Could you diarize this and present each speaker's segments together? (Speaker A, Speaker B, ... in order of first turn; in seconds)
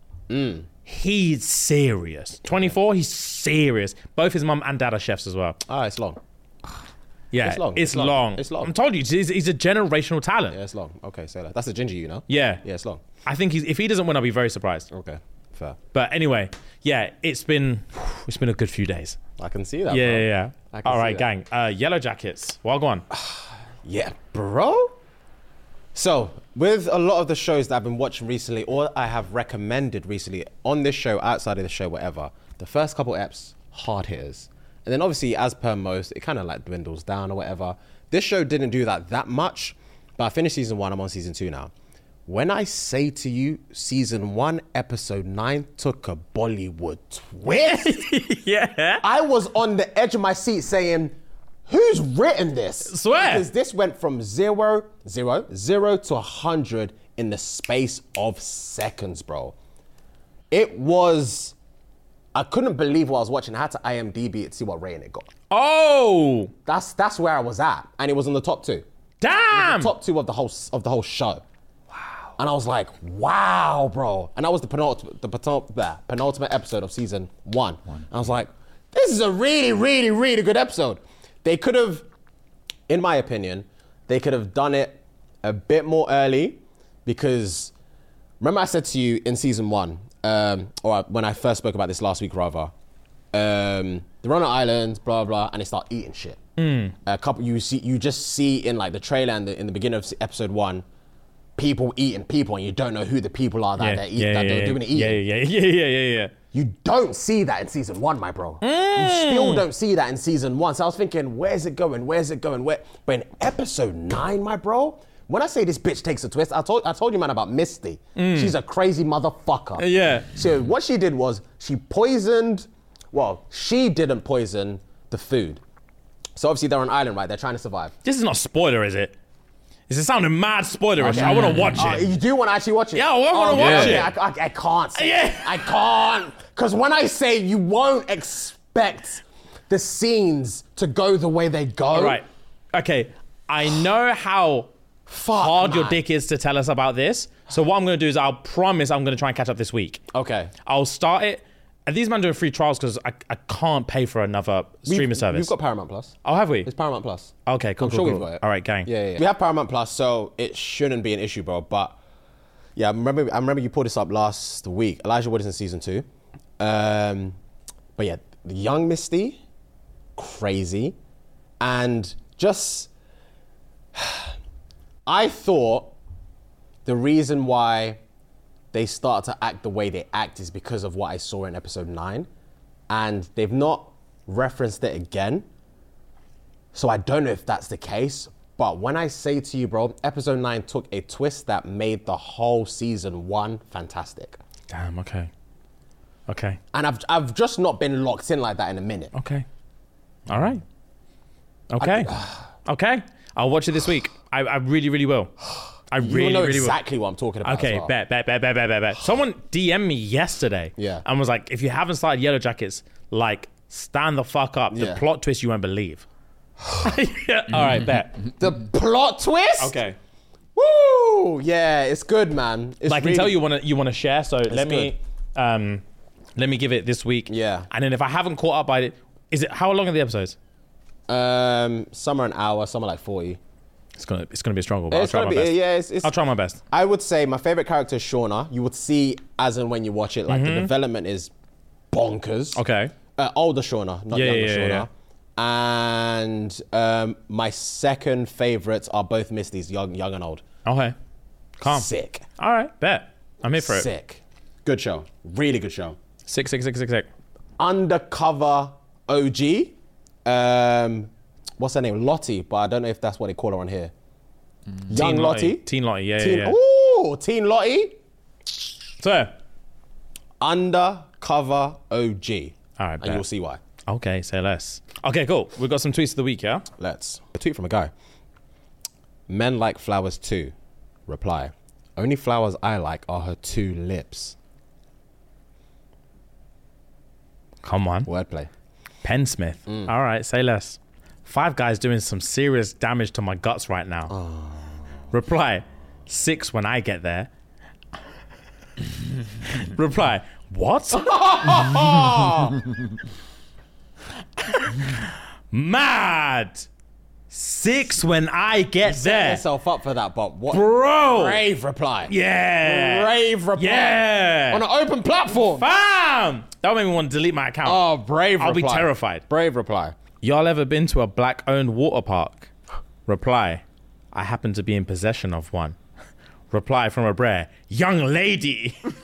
Speaker A: 0.3-0.7, 2.5-2.8, 5.7-6.2, 7.4-8.7, 10.5-13.0, 14.9-15.8, 19.4-21.3, 23.1-25.0, 25.9-41.7, 42.3-48.1, 49.0-51.1, 51.7-59.5, 60.5-61.5, 62.3-65.3, 66.7-68.9, 69.5-71.4, 72.4-82.1, 82.9-87.7, 88.4-92.7, 93.3-96.4, 97.0-100.8, 101.6-105.2, 106.5-125.6, 126.4-128.0, 131.0-142.2, 145.1-146.0, 150.1-150.5, 154.9-162.0, 162.8-166.1, 166.6-167.4, 168.0-169.4, 170.2-171.0, 171.6-172.9, 173.9-174.3, 175.1-175.9, 176.8-178.0, 178.7-182.3, 182.9-185.5, 186.7-194.4, 196.7-199.1, 201.8-202.5, 206.0-207.9, 210.8-211.1, 214.7-215.0, 218.3-219.8, 220.6-223.4, 224.5-225.0, 227.3-227.7, 231.1-233.4, 234.9-236.1, 236.7-241.3, 241.9-242.6, 243.2-250.4, 251.6-252.3, 253.6-256.0, 257.6-263.9, 264.9-268.0, 270.4-273.6, 276.8-277.9, 279.3-280.5, 281.1-284.4, 288.1-288.5, 294.1-294.9, 300.9-302.7, 308.8-315.6, 317.6-320.0
Speaker B: 0.9-5.6, 7.3-10.6, 12.3-12.6, 13.3-14.9, 15.9-19.2, 19.9-23.1, 47.5-49.0, 52.9-53.5, 65.5-66.5, 69.2-69.9, 96.6-97.0, 103.8-106.3, 108.6-109.7, 118.2-118.5, 119.8-120.3, 128.0-129.2, 129.9-132.1, 132.9-134.1, 135.0-135.8, 141.9-144.7, 145.3-150.0, 150.7-155.5, 156.2-156.7, 157.5-158.9, 194.7-195.3, 196.3-196.6, 199.2-199.4, 200.3-200.6, 201.7-205.3, 205.9-206.8, 207.4-216.1, 216.8-218.2, 219.6-220.0, 222.9-225.8, 226.4-230.4, 234.0-236.6, 240.3-240.7, 242.6-242.9, 244.1-244.9, 250.7-250.9, 251.6-253.9, 256.3-257.1, 264.9-266.6, 269.0-269.3, 272.8-273.2, 273.9-276.7, 287.6-288.1, 289.0-294.1, 295.1-297.3, 299.4-301.2, 304.4-306.7, 307.3-309.4, 310.5-311.5, 312.1-314.6, 315.3-317.8, 318.4-319.2, 320.2-322.5, 323.1-325.8, 326.5-328.8